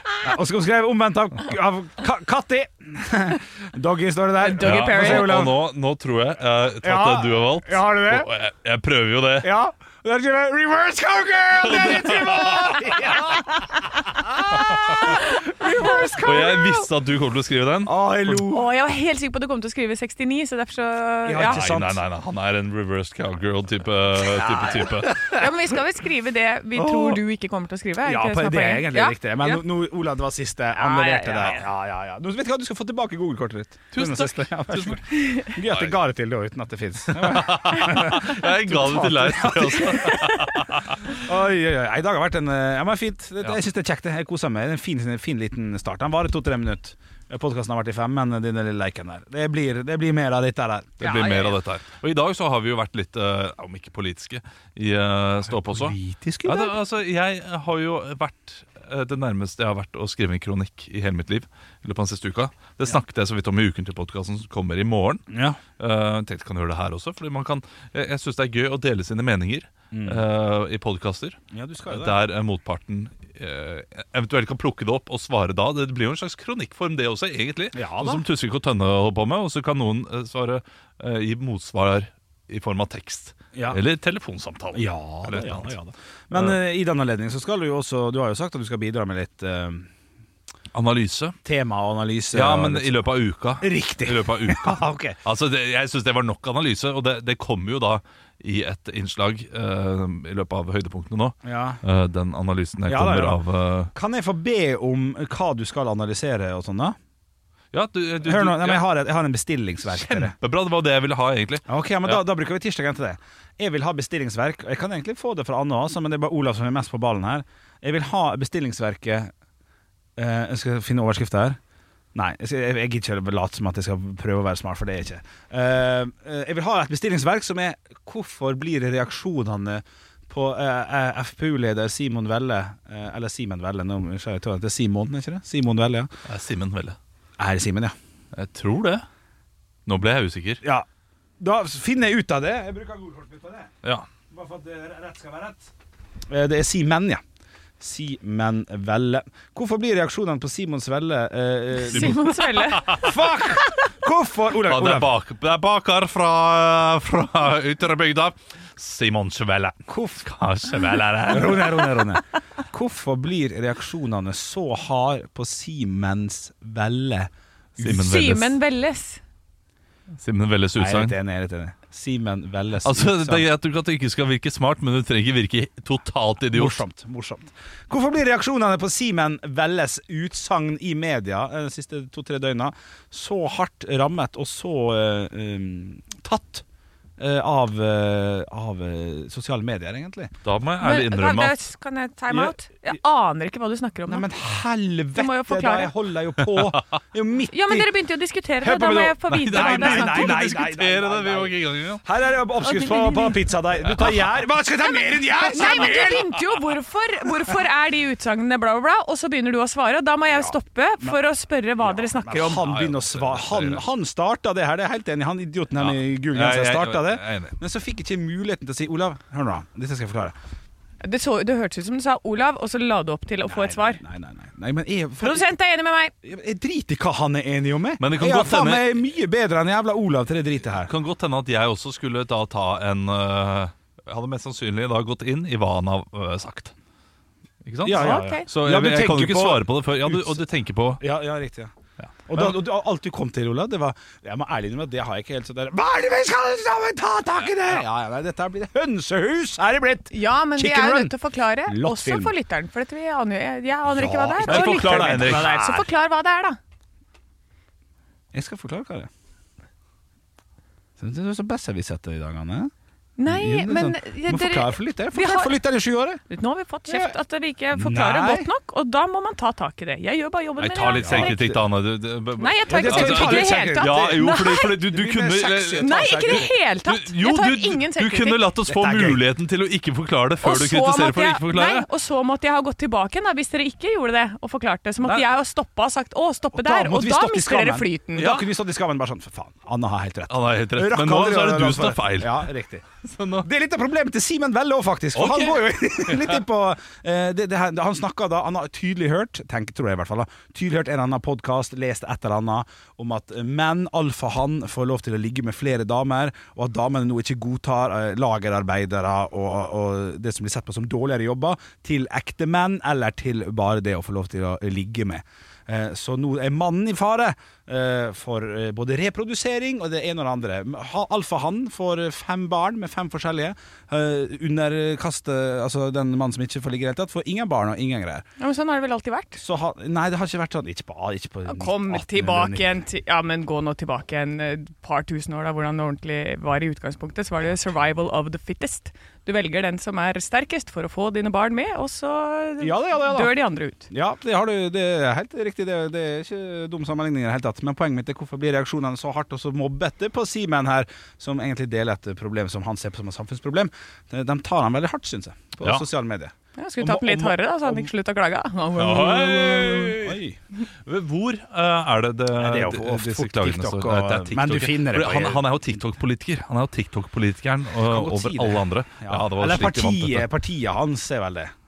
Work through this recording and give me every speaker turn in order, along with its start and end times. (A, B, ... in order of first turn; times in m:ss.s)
0:00.2-0:05.6 A
0:04.4-0:05.4 B
0:04.6-0:09.5 C
0:06.8-0:08.3 A
0:09.4-0:16.8 A
0:11.6-0:13.0 C
0:12.4-0:12.8 B
0:14.7-0:15.0 C
0:14.7-0:15.2 B
0:16.2-0:18.4 C
0:17.8-0:18.6 A
0:18.5-0:21.6 B
0:21.2-0:22.0 A
0:21.4-0:25.2 C
0:24.3-0:25.4 A
0:25.1-0:29.6 B
0:26.7-0:27.2 A
0:28.0-0:51.0 A
0:30.8-0:31.6 B
0:33.9-0:35.0 C
0:35.1-0:35.5 B
0:35.6-0:35.9 C
0:37.1-0:41.1 C
0:51.0-1:05.2 C
0:51.0-0:51.5 B
0:55.5-0:56.8 A
1:05.3-1:05.6 A
1:05.8-1:25.7 C
1:09.9-1:10.2 A
1:11.5-1:12.2 A
1:17.7-1:18.2 A
1:23.5-1:23.8 A
1:24.7-1:29.9 A
1:30.7-1:31.4 C
1:31.4-1:32.9 A
1:32.3-1:43.9 C
1:33.6-1:35.2 A
1:41.4-1:41.8 A
1:42.8-1:43.4 A
1:43.9-1:47.0 A
1:47.7-1:48.8 C
1:48.2-1:50.3 A
1:49.9-1:52.2 C
1:51.7-1:59.3 A
2:00.2-2:01.6 A
2:02.1-2:16.1 A
2:16.2-2:17.0 C
2:17.4-2:17.9 A
2:18.3-2:19.0 C
2:19.9-2:20.6 C
2:21.4-2:23.7 A
2:24.3-2:25.7 A
2:26.3-2:27.2 A
2:27.8-2:32.2 A
2:31.8-2:33.0 B
2:31.9-2:33.2 C
2:33.0-2:35.1 A
2:34.6-2:42.0 C
2:39.9-2:40.2 A
2:41.3-2:47.3 A
2:47.8-2:48.6 C
2:47.8-2:49.2 B
2:50.2-2:51.1 C
2:50.7-2:53.4 A
2:52.8-2:56.8 C
2:56.5-3:06.6 A
3:07.2-3:10.3 A
3:10.4-3:11.6 C
3:10.8-3:14.3 B
3:12.3-3:12.5 A
3:14.1-3:17.9 A
3:15.2-3:15.9 B
3:17.5-3:20.4 B
3:18.6-3:26.3 A
3:19.3-3:22.0 C
3:22.6-3:23.4 B
3:25.4-3:32.6 B
3:30.3-3:31.2 A
3:31.8-3:40.3 A
3:32.5-3:33.8 C
3:35.8-3:37.6 C
3:41.0-3:44.0 B
3:43.4-3:45.5 A
3:45.2-3:46.1 B
3:46.2-3:50.9 A
3:48.0-3:49.0 C
3:50.8-3:56.7 C
3:57.6-4:01.0 C
3:57.8-4:00.4 A
3:57.9-3:58.5 B
4:01.0-4:01.7 A
4:02.0-4:02.6 C
4:02.3-4:11.1 A
4:10.1-4:16.6 B
4:11.6-4:12.3 A
4:13.9-4:15.9 A
4:14.4-4:15.5 C
4:18.3-4:19.1 A
4:21.0-4:22.7 A
4:23.2-4:25.6 B
4:23.2-4:26.2 A
4:26.3-4:31.5 B
4:26.8-4:27.2 A
4:27.8-4:28.5 A
4:30.6-4:41.9 C
4:30.9-4:31.6 A
4:32.4-4:34.7 B
4:32.7-4:36.5 A
4:35.8-4:38.4 B
4:38.6-4:39.2 A
4:40.4-4:48.3 B
4:46.5-4:52.8 A
4:48.2-4:48.5 C
4:50.3-4:52.5 C
4:53.0-4:53.5 C
4:53.4-5:28.2 A
4:55.2-4:56.4 C
5:28.4-5:29.4 B
5:29.4-5:32.8 A
5:31.4-5:43.9 B
5:42.6-5:43.3 A
5:43.9-5:57.9 A
5:56.6-5:59.9 B
5:58.8-6:00.2 C
5:59.7-6:00.4 A
6:00.8-6:10.3 C
6:02.3-6:05.6 A
6:07.8-6:11.5 A